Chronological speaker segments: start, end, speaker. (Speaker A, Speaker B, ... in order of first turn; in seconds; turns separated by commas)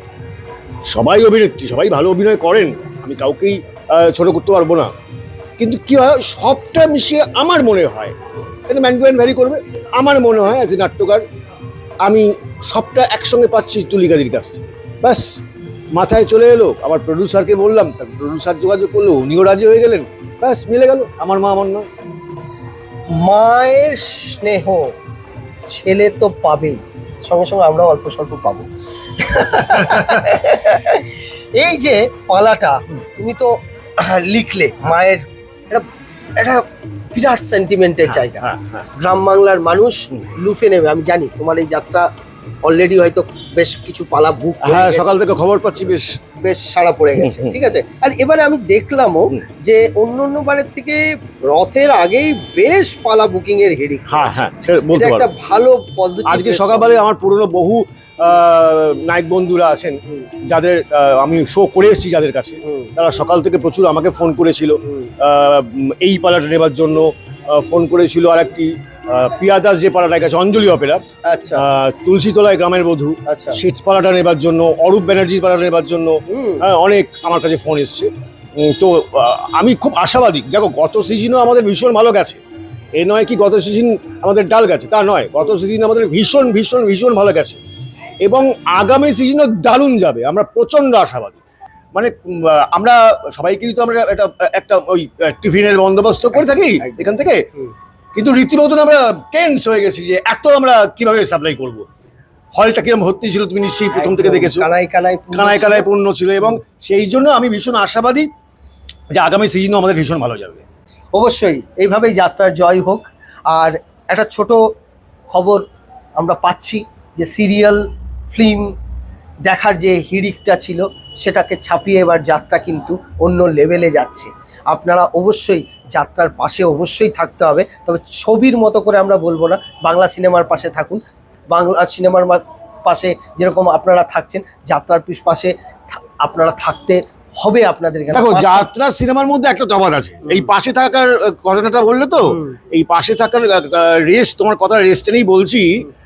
Speaker A: 0.9-4.9, Speaker A: 5.6-8.1, Speaker A: 8.7-11.2, Speaker A: 12.0-15.4, Speaker A: 15.9-21.9, Speaker B: 23.2-24.9, Speaker B: 25.7-28.7, Speaker B: 29.2-35.8, Speaker B: 36.4-36.6, Speaker B: 37.1-42.1, Speaker A: 38.1-38.8, Speaker B: 42.6-45.2, Speaker A: 44.6-46.1, Speaker B: 46.4-57.0, Speaker A: 47.2-47.5, Speaker A: 54.1-55.2, Speaker A: 56.3-71.0, Speaker B: 62.6-62.9, Speaker B: 71.2-71.6, Speaker A: 71.5-82.4, Speaker B: 73.3-73.6, Speaker B: 76.3-76.6, Speaker A: 82.9-87.6, Speaker A: 88.2-91.4, Speaker A: 91.9-97.4, Speaker B: 96.3-97.7, Speaker A: 98.1-101.8, Speaker A: 102.5-104.6, Speaker B: 103.9-105.9, Speaker A: 105.3-108.3, Speaker A: 109.1-110.6, Speaker B: 111.1-114.6, Speaker B: 115.3-115.6, Speaker B: 116.2-118.7, Speaker B: 119.4-131.0, Speaker B: 131.5-138.7, Speaker A: 138.1-145.8, Speaker B: 142.3-142.5